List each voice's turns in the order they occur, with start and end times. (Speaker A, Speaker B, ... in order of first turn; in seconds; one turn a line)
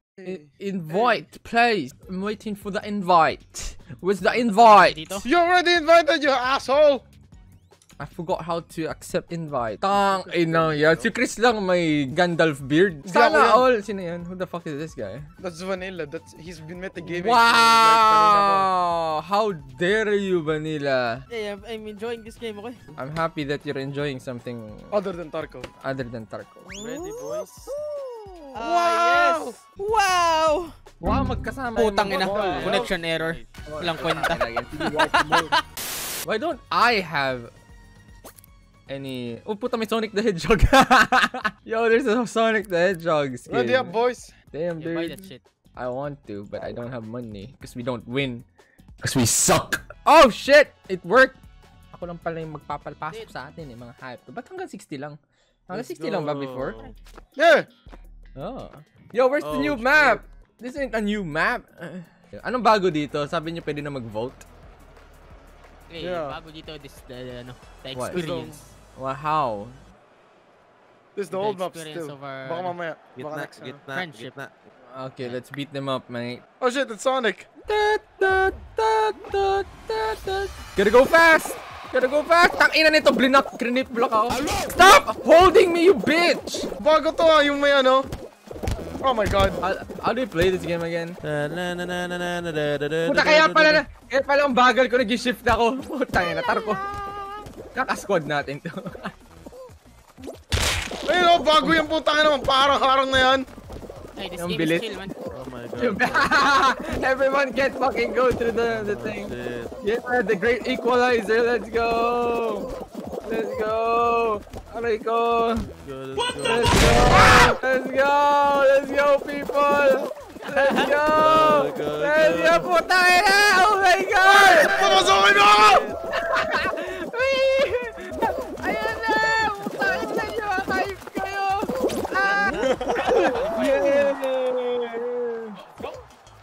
Speaker A: 0.2-1.2
Speaker B: 0.2-5.0
Speaker C: 4.3-5.3
Speaker A: 5.2-7.0
Speaker B: 8.0-15.3
Speaker A: 9.9-11.1
Speaker A: 13.1-13.7
Speaker A: 15.4-18.7
Speaker B: 17.0-21.2
Speaker C: 21.3-22.9
Speaker B: 23.0-24.9
Speaker A: 24.9-25.7
Speaker B: 25.8-26.7
Speaker D: 26.7-27.7
Speaker A: 28.5-29.6
Speaker C: 28.5-30.8
Speaker B: 31.0-32.9
Speaker C: 31.8-35.6
Speaker A: 32.1-32.9
Speaker D: 32.5-33.5
Speaker B: 33.6-35.5
Speaker B: 36.2-37.5
Speaker B: 38.9-44.0
Speaker A: 43.5-44.3
Speaker B: 44.5-48.4
Speaker C: 44.8-45.4
Speaker B: 49.0-51.4
Speaker B: 51.9-56.8
Speaker D: 55.7-56.9
Speaker A: 57.4-57.7
Speaker B: 58.4-64.4
Speaker D: 59.4-60.2
Speaker C: 65.9-68.7
Speaker A: 66.0-66.4
Speaker B: 67.9-68.3
Speaker A: 68.1-68.6
Speaker B: 69.0-69.8
Speaker A: 71.1-73.8
Speaker C: 71.3-72.7
Speaker D: 73.1-74.7
Speaker C: 73.9-74.3
Speaker B: 74.9-76.4
Speaker A: 76.6-77.5
Speaker B: 77.6-86.7
Speaker A: 86.8-88.0
Speaker A: 89.0-89.6
Speaker B: 89.6-91.1
Speaker D: 91.2-93.8
Speaker B: 93.0-96.8
Speaker B: 97.7-99.1
Speaker A: 101.0-103.5
Speaker C: 104.2-105.1
Speaker B: 104.4-104.9
Speaker D: 105.3-106.3
Speaker B: 105.8-112.7
Speaker D: 108.7-109.7
Speaker B: 113.2-115.7
Speaker D: 115.7-117.2
Speaker B: 116.2-125.0
Speaker A: 117.1-117.6
Speaker C: 120.4-120.9
Speaker D: 121.1-122.7
Speaker A: 124.2-125.8
Speaker D: 124.5-126.0
Speaker B: 126.1-135.5
Speaker D: 132.3-133.8
Speaker A: 132.5-133.3
Speaker C: 133.2-134.0